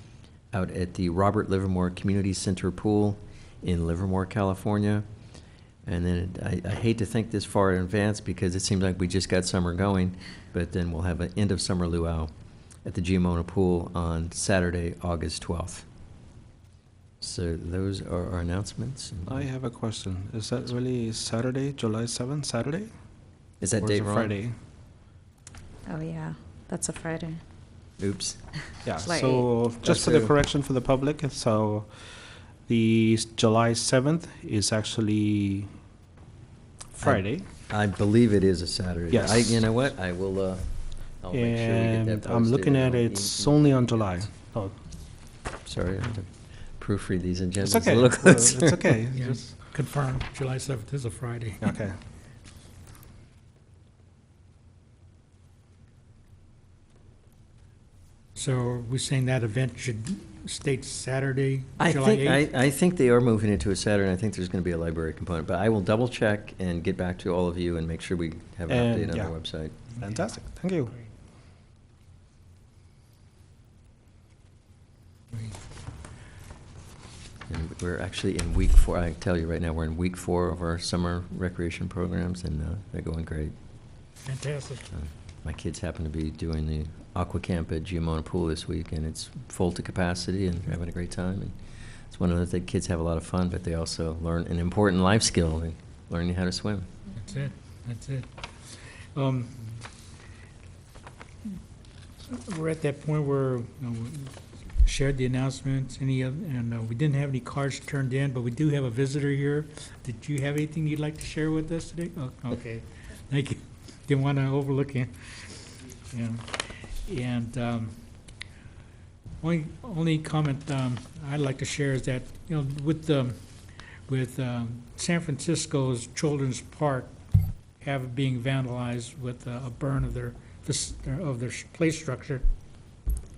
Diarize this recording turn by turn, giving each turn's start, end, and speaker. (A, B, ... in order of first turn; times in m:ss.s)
0:00.5-0:05.0 A
0:05.9-0:12.3 A
0:12.8-0:15.9 A
0:17.2-0:19.5 A
0:19.3-0:22.9 B
0:23.6-0:24.4 A
0:23.8-0:24.6 B
0:25.9-0:27.4 C
0:28.0-0:28.4 A
0:28.8-0:31.9 B
0:29.0-0:29.5 C
0:29.8-0:30.3 A
0:32.7-0:35.7 B
0:37.0-0:37.5 B
0:37.0-0:40.7 A
0:39.1-0:39.6 B
0:41.2-0:44.1 A
0:41.3-0:44.8 B
0:45.6-0:49.0 A
0:47.6-0:49.5 B
0:49.1-0:51.7 D
0:51.6-0:52.0 B
0:58.4-1:02.4 D
1:01.8-1:09.8 A
1:08.7-1:09.4 B
1:10.0-1:11.0 B
1:17.5-1:23.5 A
1:24.2-1:24.9 D
1:24.9-1:31.6 A
1:32.1-1:36.9 A
1:37.2-1:39.7 D
1:42.3-1:58.0 D
1:59.4-2:03.4 D
2:04.1-2:07.1 D
2:07.8-2:12.4 D